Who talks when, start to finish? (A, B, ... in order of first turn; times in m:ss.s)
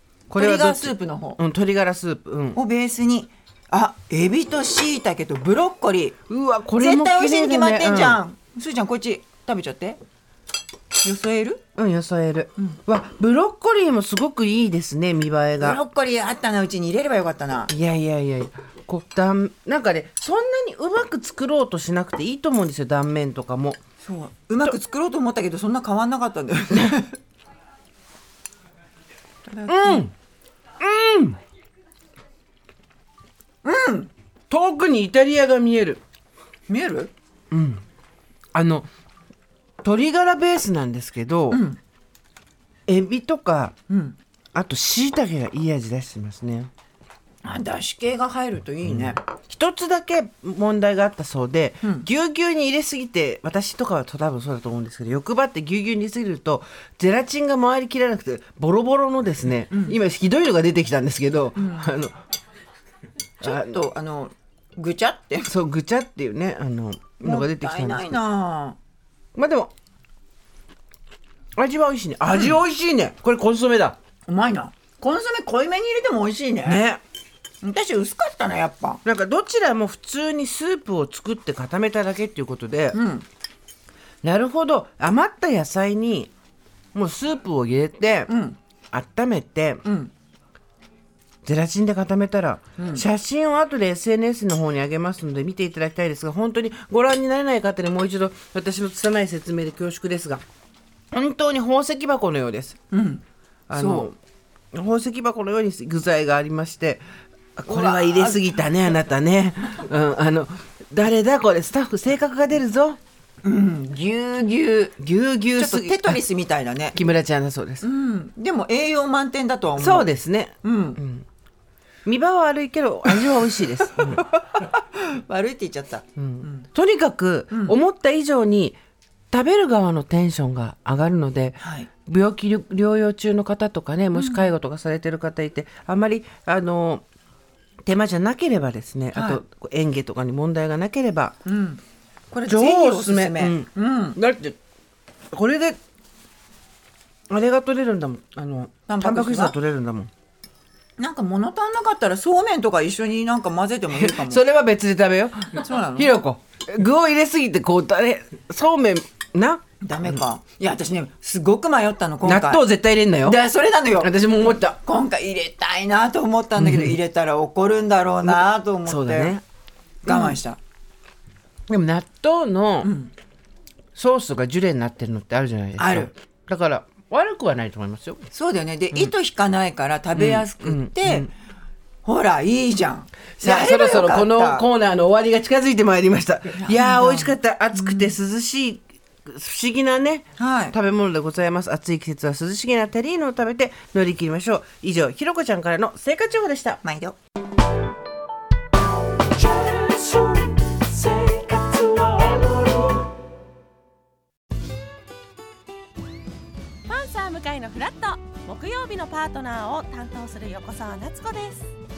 0:00.3-0:02.6 A
0:00.4-0:01.4 B
0:02.5-0:06.2 B
0:06.3-0:08.2 A
0:06.8-0:10.0 B
0:11.0-0:11.6 B
0:11.8-0:15.8 A
0:15.6-0:17.7 B
0:17.7-0:23.8 A
0:24.0-0:27.2 B
0:29.5-0:30.1 B
0:29.7-0:30.1 A
0:30.8-0:31.4 A
0:33.6-0:34.1 B
0:34.5-0:36.0 A
0:36.7-0:37.1 B
0:37.5-0:37.8 A
0:38.5-0:38.9 A
0:39.8-0:41.6 A
0:41.5-0:41.8 B
0:42.9-0:43.7 A
0:43.9-0:44.2 B
0:44.5-0:46.7 A
0:47.4-0:49.2 B
0:48.9-1:02.2 A
0:51.8-0:52.1 B
0:59.7-1:00.0 B
1:01.6-1:01.9 B
1:03.4-1:05.5 B
1:03.4-1:03.7 A
1:05.4-1:08.2 A
1:07.2-1:08.8 B
1:09.4-1:09.7 A
1:11.6-1:14.0 A
1:12.3-1:12.6 B
1:14.3-1:16.8 B
1:16.6-1:17.0 A
1:17.6-1:19.0 B
1:19.0-1:23.0 A
1:22.9-1:23.3 B
1:24.2-1:26.3 A
1:26.9-1:28.3 A
1:28.3-1:28.6 B
1:28.9-1:29.8 A
1:29.8-1:30.1 B
1:31.4-1:40.4 A
1:32.8-1:33.0 B
1:41.1-1:42.8 A
1:42.9-1:44.1 B
1:43.7-1:44.2 A
1:44.7-1:47.0 A
1:47.6-1:53.0 A
1:47.7-1:48.5 B
1:53.4-1:54.9 B
1:55.0-1:56.2 A
1:55.6-1:57.0 B
1:56.9-1:57.9 A
1:57.8-2:01.0 B
1:59.8-2:01.2 A
2:02.0-2:04.3 A
2:03.1-2:06.7 B
2:06.2-2:08.8 A
2:09.3-2:17.0 A
2:11.6-2:11.9 B
2:14.2-2:14.5 B
2:17.8-2:21.3 A
2:19.1-2:19.4 B
2:21.4-2:24.2 B
2:22.5-2:24.6 A
2:25.3-2:25.8 A
2:27.3-2:30.1 A
2:28.9-2:29.6 B
2:31.0-2:34.4 B
2:33.9-2:40.2 A
2:35.6-2:36.2 B
2:39.8-2:42.6 B
2:42.2-2:43.4 A
2:43.2-2:44.1 B
2:43.9-2:44.8 A
2:44.7-2:49.4 B
2:46.6-2:47.0 A
2:48.2-2:49.4 A
2:50.0-2:50.6 B
2:50.1-2:50.4 A
2:51.7-2:52.9 A
2:52.8-2:53.1 B
2:54.0-2:58.3 A
2:55.8-2:56.1 B
2:58.3-3:01.3 B
3:00.2-3:01.3 A
3:02.0-3:04.7 B
3:03.4-3:16.8 A
3:06.5-3:08.1 B
3:10.4-3:10.8 B
3:16.8-3:17.2 B
3:19.9-3:20.4 A
3:21.1-3:22.8 A
3:26.9-3:31.7 C